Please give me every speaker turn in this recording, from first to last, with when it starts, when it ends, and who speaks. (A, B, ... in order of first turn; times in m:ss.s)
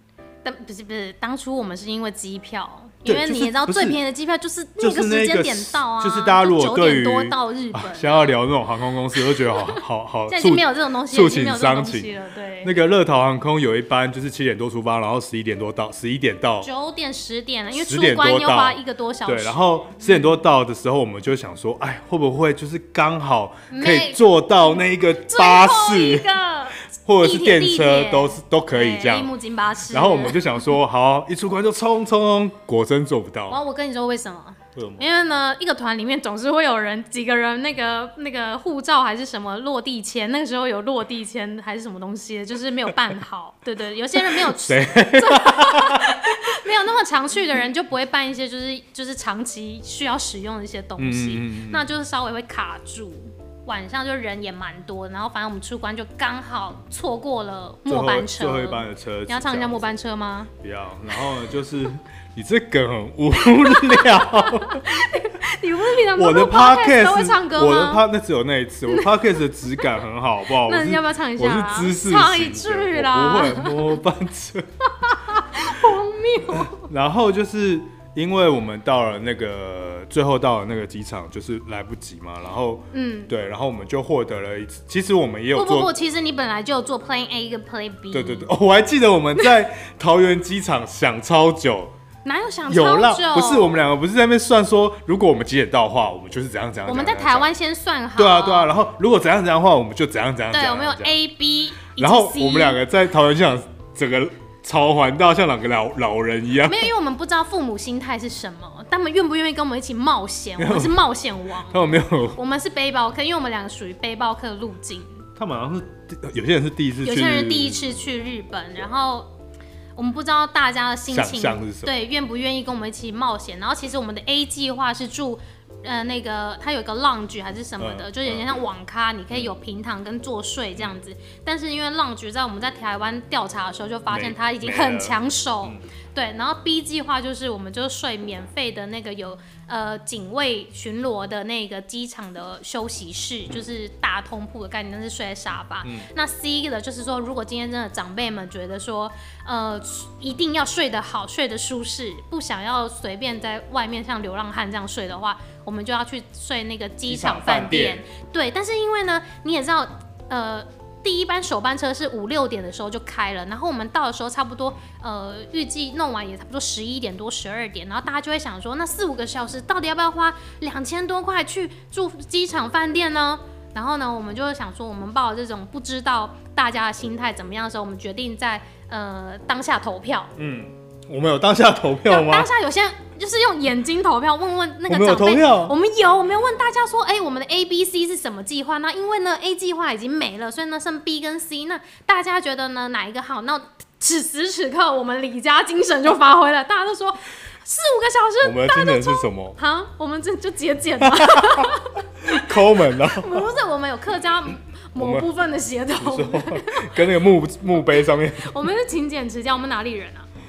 0:00.4-0:08.4 A
0:03.0-0:04.0 B
0:04.8-0:12.1 B
0:09.2-0:12.8 A
0:12.6-0:16.7 B
0:16.6-0:20.4 A
0:17.7-0:26.3 B
0:23.7-0:24.2 A
0:25.2-0:30.6 A
0:27.0-0:29.3 B
0:29.9-0:33.6 B
0:33.5-1:00.5 A
0:34.8-0:35.1 B
0:44.4-0:46.5 B
0:51.0-0:51.9 B
0:57.9-0:59.8 B
1:00.6-1:04.9 B
1:03.7-1:08.0 A
1:06.2-1:14.7 B
1:08.9-1:09.2 A
1:10.6-1:13.9 A
1:15.0-1:16.9 A
1:16.5-1:25.9 B
1:22.9-1:23.3 A
1:25.5-1:28.5 A
1:28.1-1:32.0 B
1:32.2-1:33.8 A
1:32.7-1:37.5 B
1:36.9-1:38.7 A
1:38.2-1:41.2 B
1:40.5-1:42.8 A
1:42.0-1:46.9 B
1:46.6-1:55.2 A
1:50.6-1:51.0 B
1:51.7-1:52.4 B
1:55.4-1:57.9 B
1:57.0-1:59.3 A
2:00.0-3:00.3 A
2:01.1-2:01.9 B
2:07.8-2:08.5 B
2:14.1-2:15.9 B
2:25.8-2:26.1 B
2:37.1-2:38.0 B
3:00.4-3:02.5 B
3:02.1-3:27.0 A
3:04.9-3:05.8 B
3:18.4-3:19.6 B
3:21.0-3:23.5 B
3:25.0-3:25.3 B
3:25.9-3:28.6 B
3:28.3-3:30.3 A